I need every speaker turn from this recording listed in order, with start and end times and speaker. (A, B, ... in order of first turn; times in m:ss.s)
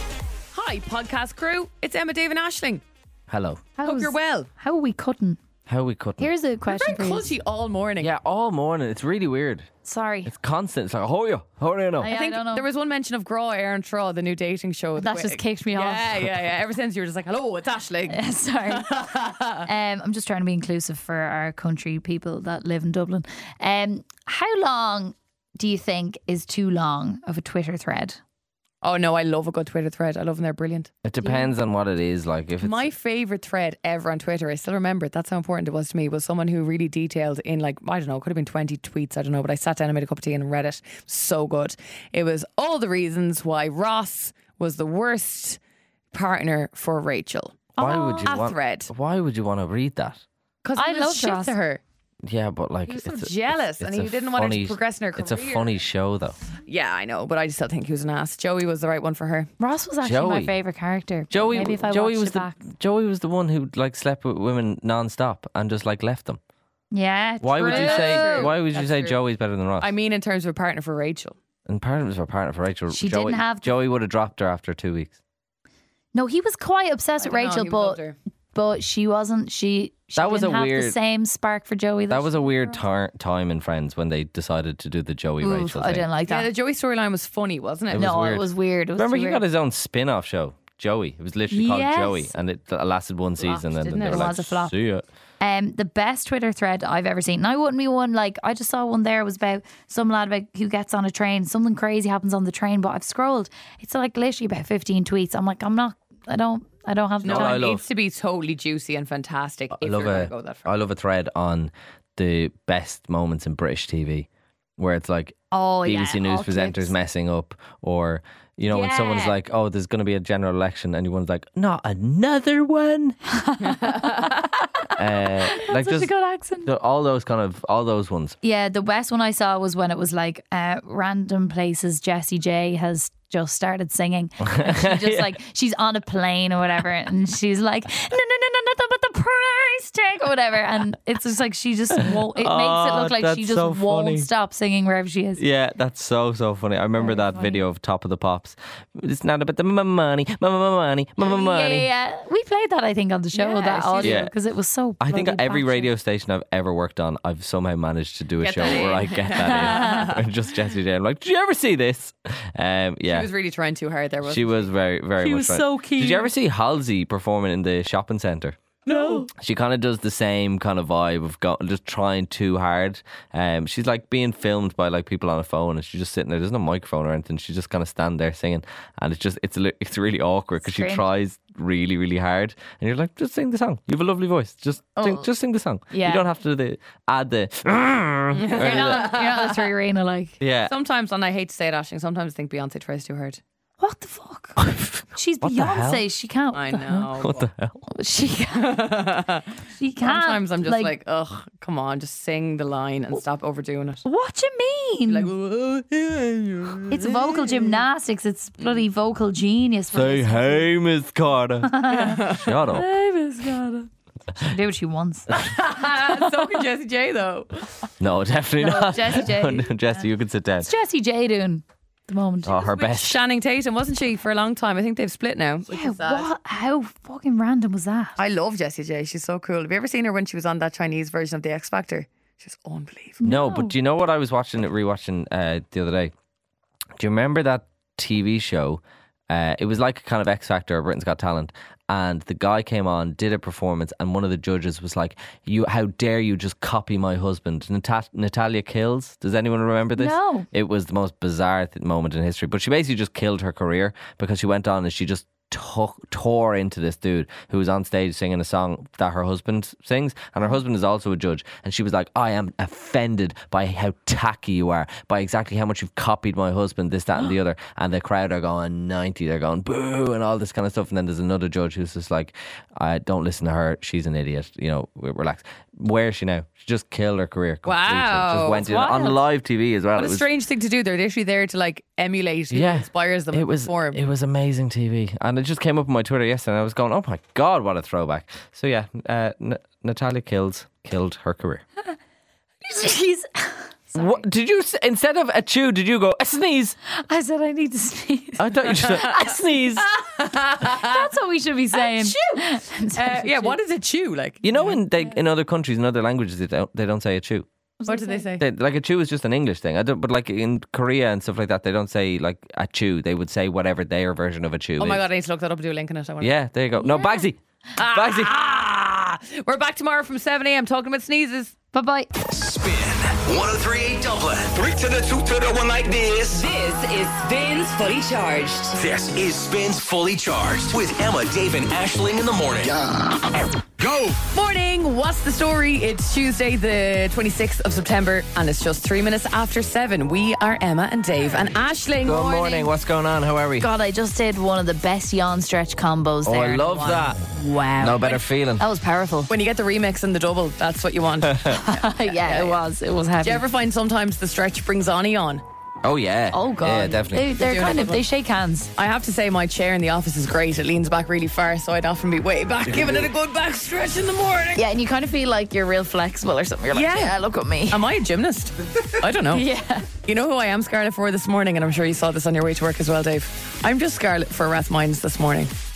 0:00.5-0:02.8 A
0:03.3-0:03.6 B
0:03.8-0:05.4 C
0:03.8-0:04.5 A
0:05.7-0:06.3 B
0:06.2-0:07.3 C
0:06.7-0:08.1 A
0:08.0-0:09.7 B
0:09.8-0:10.3 C
0:10.2-0:12.1 B
0:12.0-0:12.6 C
0:12.1-0:19.7 A
0:15.0-0:16.0 C
0:18.1-0:19.1 C
0:19.6-0:28.2 C
0:28.8-0:30.9 A
0:31.0-0:32.9 B
0:32.6-0:45.6 A
0:46.1-0:48.9 A
0:47.8-0:50.2 B
0:50.6-0:51.8 A
0:50.8-0:51.6 C
0:52.2-0:56.4 B
0:52.9-0:55.8 A
0:56.6-0:59.5 A
0:59.6-1:02.6 C
1:00.0-1:00.5 B
1:01.3-1:06.4 B
1:06.9-1:08.5 C
1:07.4-1:09.9 B
1:07.6-1:09.2 A
1:09.8-1:11.4 A
1:11.7-1:15.2 B
1:12.9-1:13.7 C
1:16.1-1:18.0 C
1:17.2-1:18.2 A
1:18.5-1:22.8 C
1:20.2-1:21.0 B
1:22.1-1:26.0 B
1:25.4-1:26.5 C
1:26.3-1:28.3 A
1:27.9-1:35.0 B
1:27.9-1:29.4 C
1:31.5-1:32.3 C
1:33.4-1:34.3 A
1:34.0-1:34.7 C
1:35.4-1:47.6 C
1:47.2-1:50.7 A
1:47.2-1:47.8 B
1:49.8-1:54.3 B
1:54.8-2:03.2 B
1:55.5-1:56.9 C
1:58.7-1:59.3 C
2:03.3-2:04.9 C
2:03.6-2:04.5 A
2:05.0-2:08.4 B
2:05.5-2:06.7 C
2:08.4-2:25.4 C
2:14.4-2:15.3 B
2:22.3-2:24.3 B
2:25.4-2:31.9 B
2:27.0-2:27.6 C
2:31.2-2:35.9 C
2:33.3-2:34.2 A
2:34.0-2:34.3 B
2:35.0-2:43.3 B
2:38.4-2:40.1 C
2:38.6-2:40.2 A
2:43.1-2:44.7 A
2:44.2-2:48.6 B
2:45.2-2:46.3 C
2:48.8-2:49.3 A
2:48.9-2:49.3 C
2:49.3-3:09.2 B
3:00.6-3:01.0 C
3:05.0-3:05.3 C
3:05.9-3:06.2 C
3:08.4-3:09.6 A
3:08.6-3:10.4 C
3:10.4-3:10.7 B
3:10.7-3:13.4 A
3:13.8-3:14.6 C
3:14.6-3:16.0 B
3:15.1-3:17.1 C
3:16.5-3:17.5 A
3:17.2-3:17.8 B
3:17.9-3:18.9 C
3:18.5-3:19.5 A
3:19.8-3:20.9 C
3:20.0-3:24.0 A
3:24.0-3:25.3 C
3:25.1-3:27.8 A
3:26.9-3:30.7 C
3:29.9-3:32.9 B
3:31.6-3:32.2 C
3:31.9-3:32.5 A
3:32.7-3:33.9 C
3:34.4-3:35.3 C
3:35.3-3:37.6 A
3:36.0-3:36.6 C
3:38.0-3:40.7 B
3:38.6-3:39.7 C
3:40.6-3:42.6 C
3:42.4-3:43.2 B
3:42.6-3:46.3 A
3:45.7-3:48.2 C
3:48.2-3:53.2 A
3:53.2-3:53.7 C
3:53.2-3:56.1 B
3:57.0-4:40.2 B
4:10.0-4:10.5 C
4:37.6-4:39.2 A
4:39.9-4:44.0 A
4:42.5-4:51.6 B
4:52.6-4:54.0 C
4:53.9-4:56.8 B
4:56.9-4:59.3 C
4:58.4-4:59.9 B
4:59.9-5:01.1 A
5:00.6-5:03.6 C
5:01.7-5:04.8 A
5:04.4-5:07.5 B
5:07.8-5:08.2 C
5:07.9-5:08.4 A
5:08.4-5:15.0 B
5:14.8-5:16.3 A
5:16.2-5:18.4 B
5:16.8-5:17.2 C
5:17.8-5:21.5 A
5:21.7-5:22.1 C
5:22.2-5:26.4 D
5:26.3-5:28.8 E
5:28.7-5:33.2 D
5:33.8-5:34.2 D
5:34.3-5:42.7 A
5:42.0-5:43.7 B
5:43.6-5:49.3 C
5:46.2-5:47.2 B
5:46.7-5:47.1 A
5:47.8-5:48.6 B
5:49.3-5:52.6 A
5:51.5-5:53.4 C
5:53.2-5:55.4 A
5:55.8-5:57.3 B
5:56.3-5:58.7 C
5:57.4-5:58.0 A
5:58.8-6:04.6 A
6:02.7-6:03.0 B
6:04.6-6:07.8 C
6:06.7-6:07.2 A
6:07.7-6:09.5 A
6:09.3-6:09.9 C
6:10.0-6:15.5 A